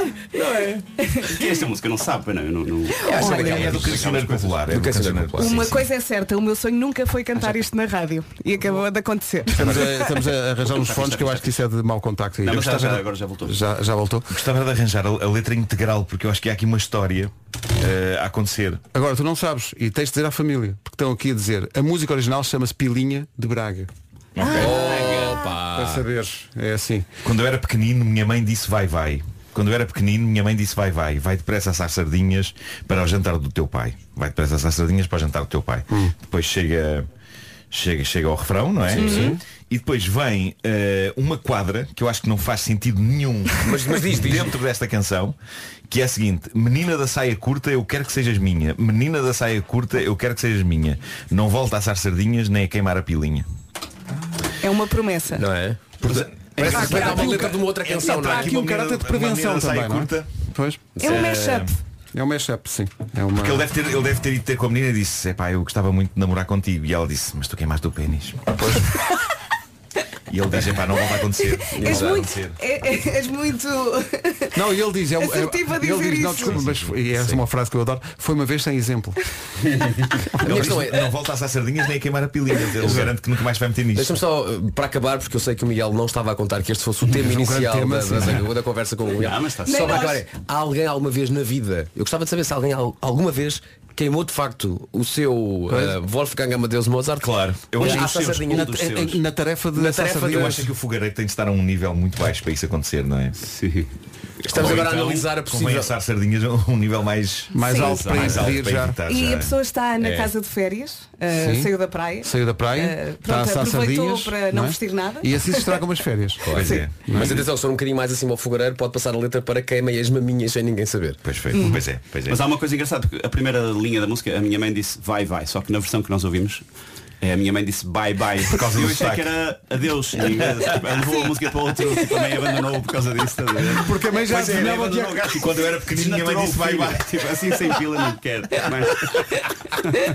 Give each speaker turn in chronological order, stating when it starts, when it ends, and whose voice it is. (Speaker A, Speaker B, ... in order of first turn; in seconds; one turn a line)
Speaker A: 0.3-0.8
Speaker B: 1.0-1.5
Speaker C: 1.2-4.6
Speaker B: 2.9-3.6
Speaker A: 3.1-3.8
Speaker D: 3.1-5.8
Speaker A: 4.7-5.8
Speaker B: 5.4-10.2
Speaker E: 9.5-14.4
Speaker C: 10.6-11.6
Speaker C: 12.4-13.6
Speaker D: 14.3-18.8
Speaker E: 18.9-23.9
Speaker D: 24.4-24.8
Speaker A: 24.5-26.1
Speaker E: 25.7-27.1
Speaker D: 27.2-37.1
Speaker D: 37.7-45.4
Speaker A: 39.0-39.3
Speaker B: 39.0-39.4
Speaker A: 43.6-44.5
Speaker D: 45.9-53.5
Speaker B: 54.6-55.5
Speaker A: 55.4-56.0
Speaker D: 56.0-60.3
Speaker A: 56.5-58.6
Speaker E: 56.5-61.0
Speaker B: 61.0-61.7
Speaker D: 61.0-61.7
Speaker E: 62.1-63.7
Speaker D: 63.3-68.6
Speaker E: 68.6-68.9
Speaker D: 70.3-72.6
Speaker B: 71.1-74.6
Speaker A: 71.8-72.2
Speaker E: 74.5-79.2
Speaker B: 75.2-76.6
Speaker D: 76.5-76.9
Speaker C: 79.7-80.0
Speaker E: 80.2-80.7
Speaker D: 80.4-84.2
Speaker A: 80.4-81.1
Speaker E: 82.8-83.1
Speaker A: 83.9-98.8
Speaker E: 87.1-88.5
Speaker C: 89.1-90.1
Speaker B: 89.6-90.2
Speaker E: 95.7-96.0
Speaker D: 97.2-98.3
Speaker C: 97.8-99.2
Speaker E: 97.8-100.7
Speaker A: 99.7-100.7
Speaker D: 100.3-103.4
Speaker C: 103.4-103.9
Speaker A: 104.4-105.9
Speaker D: 104.5-109.5
Speaker C: 104.5-105.3
Speaker E: 107.5-109.0
Speaker B: 107.6-108.1
Speaker C: 107.8-108.6
Speaker B: 109.0-115.8
Speaker A: 110.0-110.3
Speaker E: 111.3-111.7
Speaker E: 112.2-117.4
Speaker A: 116.4-121.2
Speaker D: 116.5-117.3
Speaker D: 121.2-122.4
Speaker B: 121.5-121.8
Speaker C: 122.3-126.6
Speaker C: 127.2-140.0
Speaker D: 128.4-129.4
Speaker D: 130.3-130.8
Speaker E: 133.7-135.4
Speaker D: 134.3-137.3